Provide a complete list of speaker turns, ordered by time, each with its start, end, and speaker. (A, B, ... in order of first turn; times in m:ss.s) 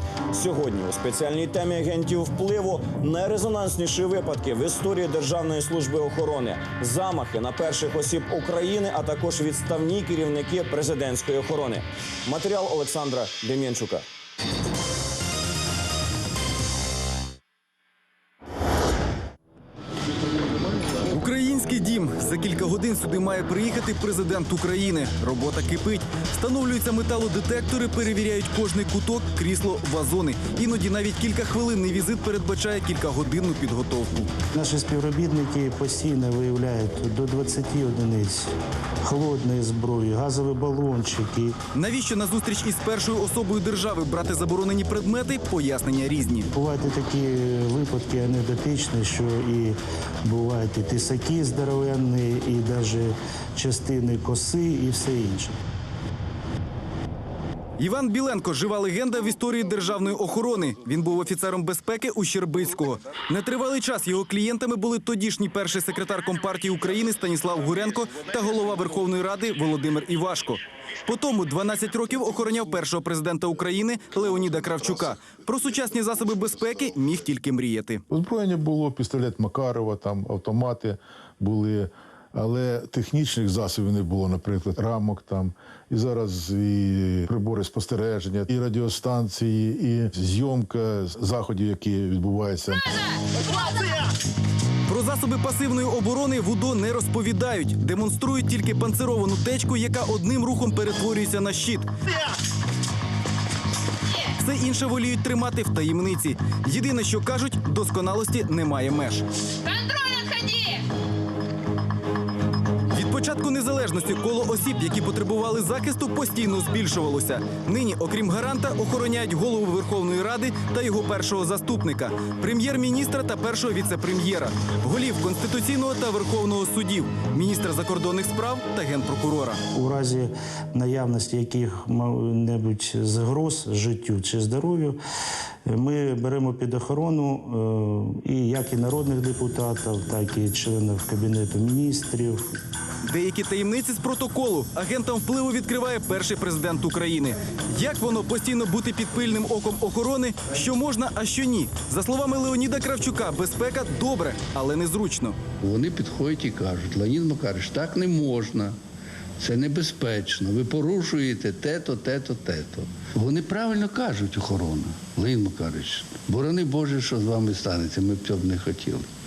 0:00.3-0:14.1 A
0:21.1-0:34.3 B
0:34.5-0:38.5 C
0:39.0-0:41.6 C
0:41.7-0:46.5 B
0:46.5-0:55.6 C
0:57.8-1:18.0 B
1:18.1-1:33.0 D
1:34.9-1:41.9 B
1:44.4-1:49.2 B
1:52.9-2:09.6 B
2:09.7-2:15.0 C
2:15.7-2:22.4 C
2:23.1-2:35.4 B
2:35.6-2:38.8 E
2:39.4-2:49.1 E